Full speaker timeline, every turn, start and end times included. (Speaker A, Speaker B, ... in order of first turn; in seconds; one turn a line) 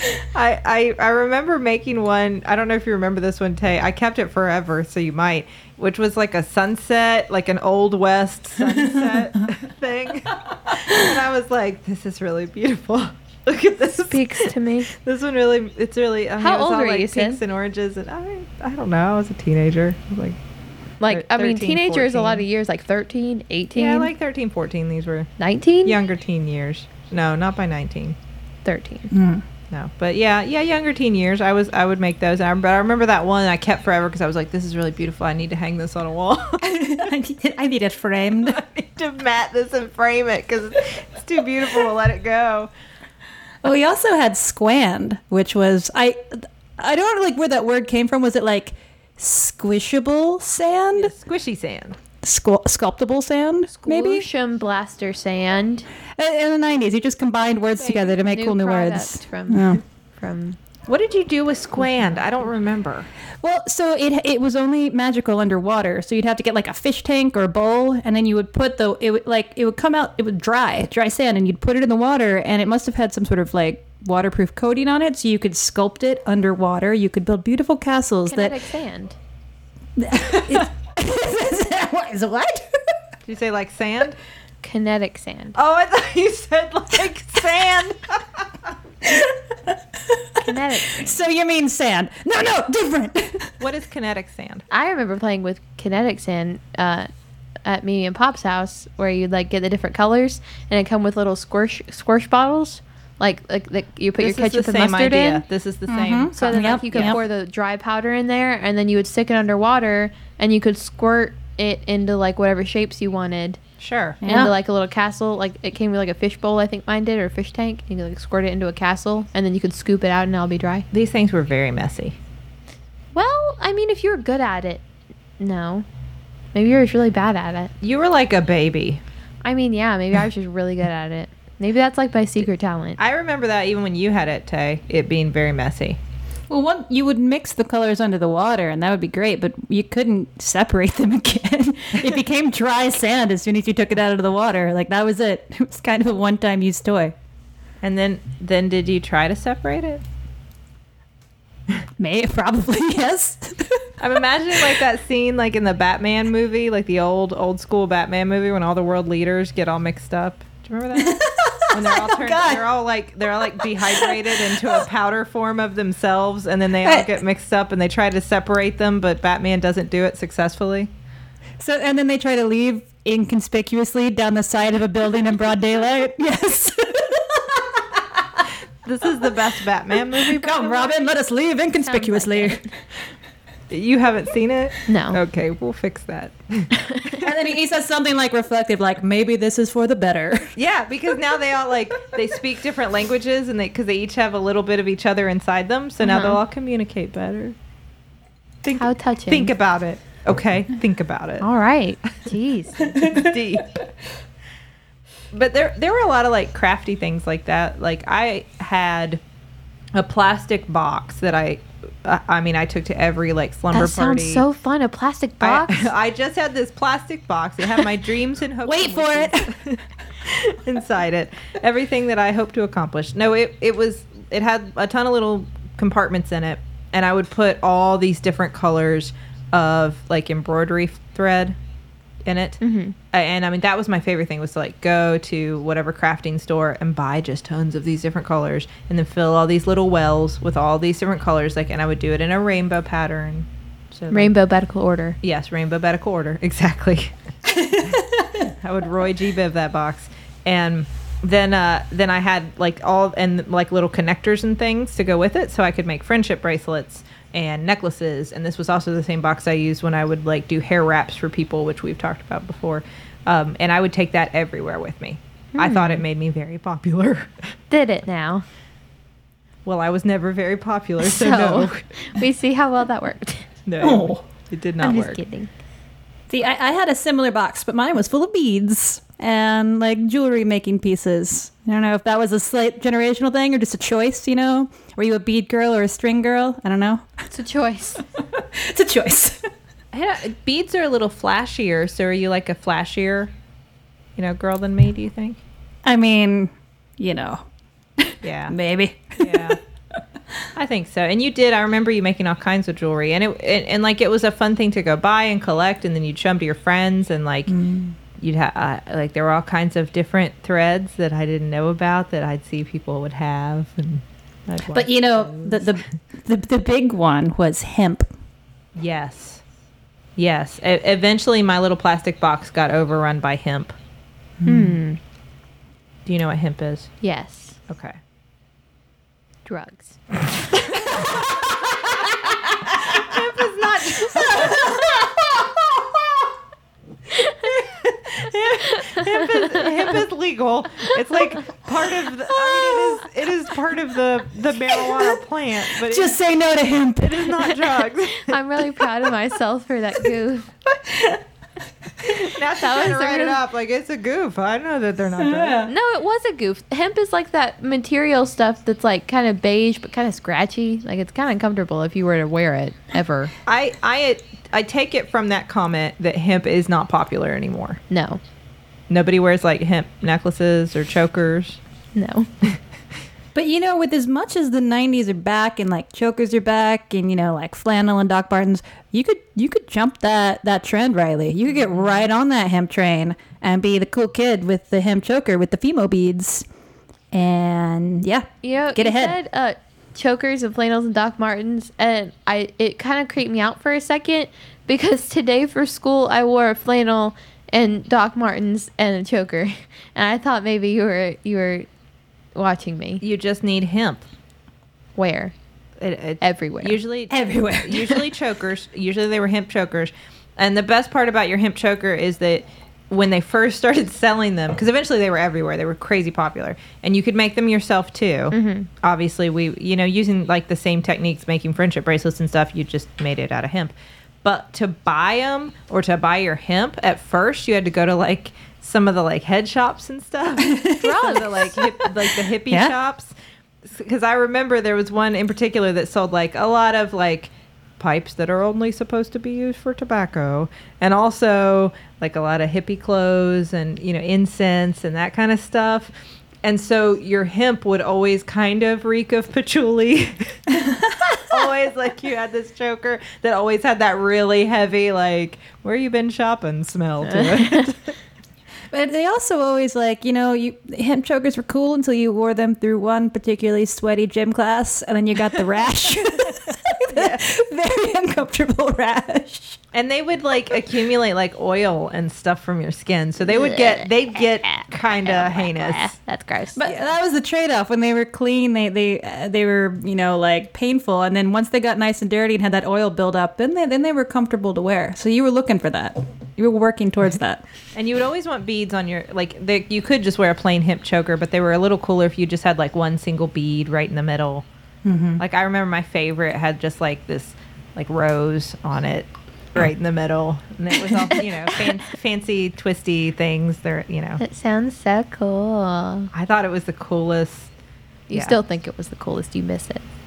Speaker A: 0.3-20.4
Speaker B: 14.1-14.9
Speaker B: 16.4-17.4
Speaker B: 21.0-24.1
Speaker A: 21.1-22.4
Speaker A: 23.7-25.3
Speaker B: 25.4-26.0
Speaker A: 25.8-28.1
Speaker B: 28.6-29.1
Speaker C: 29.1-29.4
Speaker A: 29.7-36.8
Speaker C: 36.6-38.6
Speaker A: 38.4-42.7
Speaker C: 43.6-51.1
Speaker A: 50.9-52.0
Speaker C: 52.2-54.2
Speaker B: 53.7-55.9
Speaker C: 56.1-59.8
Speaker B: 57.9-60.6
Speaker A: 60.9-63.1
Speaker C: 63.4-78.6
Speaker B: 78.3-79.2
Speaker C: 80.0-82.8
Speaker A: 83.3-84.2
Speaker B: 84.6-85.6
Speaker A: 85.5-88.4
Speaker C: 89.0-93.5
Speaker B: 90.4-91.2
Speaker A: 93.6-94.6
Speaker B: 94.7-97.1
Speaker B: 97.6-105.4
Speaker A: 104.2-107.2
Speaker C: 105.9-107.2
Speaker B: 106.3-113.6
Speaker A: 113.8-114.5
Speaker C: 114.2-114.5
Speaker B: 114.2-120.8
Speaker A: 120.9-122.2
Speaker B: 123.1-124.8
Speaker B: 125.4-125.8
Speaker B: 126.5-127.7
Speaker A: 127.8-129.0
Speaker B: 129.4-133.0
Speaker A: 133.0-136.0
Speaker C: 136.5-147.1
Speaker A: 147.8-150.0
Speaker C: 152.0-153.9
Speaker A: 154.0-170.9
Speaker C: 161.0-162.7
Speaker C: 163.6-164.8
Speaker C: 166.8-167.2
Speaker C: 171.6-178.4
Speaker A: 178.8-181.0
Speaker C: 180.1-182.6
Speaker B: 181.8-182.7
Speaker A: 183.7-187.1
Speaker B: 184.9-185.2
Speaker C: 187.2-190.5
Speaker A: 190.6-197.5
Speaker B: 196.0-196.4
Speaker A: 198.6-201.4
Speaker B: 198.8-199.5
Speaker B: 201.4-203.0
Speaker C: 202.9-203.3
Speaker A: 203.0-203.8
Speaker A: 205.3-209.2
Speaker A: 209.9-214.4
Speaker B: 213.7-215.9
Speaker A: 215.4-231.6
Speaker C: 218.6-219.6
Speaker A: 232.2-232.6
Speaker B: 232.6-232.9
Speaker A: 233.1-244.3
Speaker B: 244.1-245.2
Speaker A: 245.2-247.1
Speaker C: 247.4-248.5
Speaker A: 248.6-267.3
Speaker B: 265.5-266.0
Speaker B: 267.7-268.4
Speaker A: 269.6-271.8
Speaker B: 271.0-273.4
Speaker A: 273.6-275.2
Speaker C: 273.8-274.2
Speaker B: 274.8-275.5
Speaker C: 276.3-287.1
Speaker B: 287.3-288.0
Speaker C: 288.3-289.4
Speaker A: 289.9-293.3
Speaker A: 294.2-295.4
Speaker C: 295.8-297.4
Speaker C: 298.0-299.6
Speaker A: 298.2-298.5
Speaker A: 299.2-299.6
Speaker A: 300.6-307.5
Speaker C: 307.5-307.9
Speaker A: 308.2-315.8
Speaker C: 314.7-318.1
Speaker A: 318.8-319.4
Speaker A: 320.2-323.7
Speaker C: 324.4-324.8
Speaker B: 324.4-325.0
Speaker A: 326.1-326.9
Speaker B: 327.0-327.6
Speaker A: 327.7-327.9
Speaker B: 329.4-330.0
Speaker A: 330.6-331.2
Speaker A: 332.6-335.1
Speaker A: 337.6-346.2
Speaker B: 338.7-339.7
Speaker C: 345.8-347.6
Speaker A: 347.0-348.3
Speaker B: 348.1-350.5
Speaker A: 352.1-355.7
Speaker B: 352.6-353.4
Speaker C: 355.2-355.7
Speaker B: 355.7-363.3
Speaker A: 363.4-367.8
Speaker B: 367.9-368.2
Speaker A: 368.9-371.6
Speaker B: 371.9-372.5
Speaker C: 373.3-386.4
Speaker A: 381.6-381.9
Speaker C: 387.1-389.1
Speaker B: 388.4-401.7
Speaker B: 402.3-403.0
Speaker A: 403.0-404.1
Speaker B: 404.9-405.3
Speaker A: 405.8-423.7
Speaker B: 406.2-406.8
Speaker C: 407.1-408.1
Speaker B: 418.3-418.7
Speaker A: 424.2-433.1
Speaker C: 430.4-431.1
Speaker B: 430.8-431.6
Speaker C: 431.8-432.7
Speaker A: 433.6-445.9
Speaker A: 446.4-450.4
Speaker C: 450.5-451.2
Speaker A: 451.3-457.9
Speaker B: 457.1-457.6
Speaker C: 458.7-469.6
Speaker A: 466.9-467.2
Speaker A: 469.7-475.9
Speaker B: 473.2-476.6
Speaker C: 476.6-487.4
Speaker A: 487.7-494.4
Speaker C: 494.8-495.2
Speaker A: 495.2-504.2
Speaker B: 501.1-501.6
Speaker B: 504.2-506.1
Speaker A: 506.1-507.5
Speaker B: 508.1-509.8